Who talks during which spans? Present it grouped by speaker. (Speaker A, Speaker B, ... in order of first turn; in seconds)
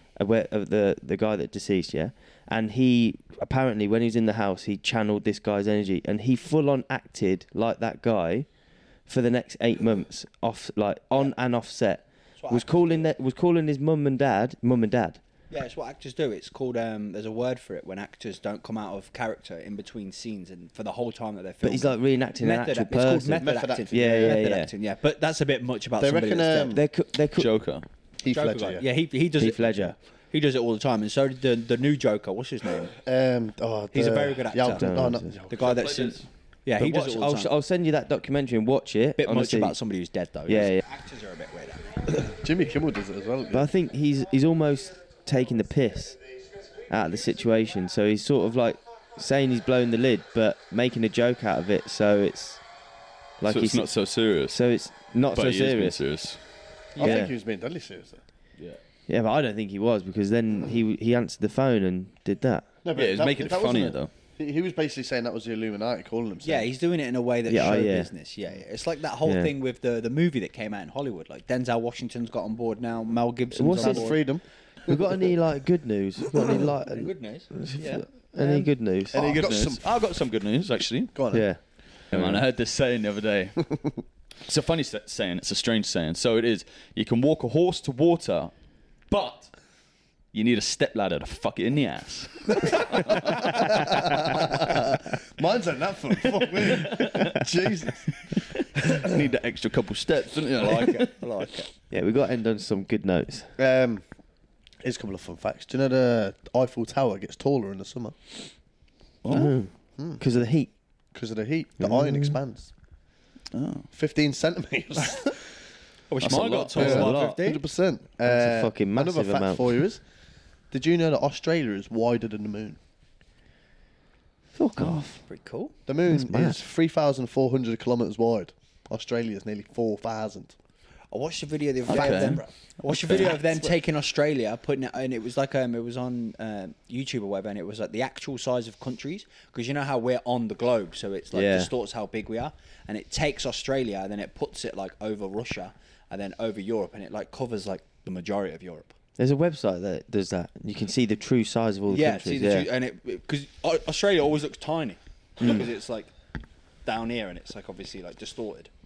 Speaker A: 0.2-8.5, 9.1-15.2, 21.6-24.7, 26.7-27.5, 29.4-30.0, 34.7-35.4, 36.8-39.8, 40.5-40.8, 43.5-46.2, 46.9-52.6, 53.4-53.9, 54.5-56.0, 57.0-57.3, 59.1-62.7, 67.5-68.1, 69.2-69.5, 73.5-74.2, 74.9-79.3, 81.3-81.6, 82.1-82.4, 101.9-103.5, 109.3-110.7, 111.8-112.4, 116.8-117.4, 118.2-119.8, 124.5-125.2, 126.1-126.6, 141.3-141.7, 149.2-152.7
Speaker B: 12.4-13.1, 15.5-26.8, 28.3-32.9, 33.9-34.9, 35.5-37.5, 39.2-41.9, 57.0-57.3, 66.4-74.2, 76.9-78.7, 100.6-101.7, 116.1-117.6, 124.8-125.7, 131.1-148.9, 151.9-156.1, 156.8-158.7
Speaker C: 23.4-24.4, 26.0-26.8, 28.2-28.9, 33.0-35.7, 42.1-43.7, 57.0-58.2, 62.8-66.7, 73.8-75.1, 79.1-79.9, 81.1-81.5, 93.4-99.0, 103.6-104.0, 104.8-108.2, 111.1-112.7, 113.9-115.4, 116.8-120.0, 120.7-122.8, 125.9-130.6, 131.9-132.4
Speaker D: 27.4-27.9, 35.5-36.3, 53.5-54.6, 55.3-56.4, 63.0-64.1, 79.1-81.1, 82.1-83.8, 84.5-88.5, 89.1-89.5, 90.3-94.3, 96.7-97.3, 98.9-101.2, 109.2-109.5, 113.5-113.9, 116.2-117.1, 131.9-132.4, 133.0-133.4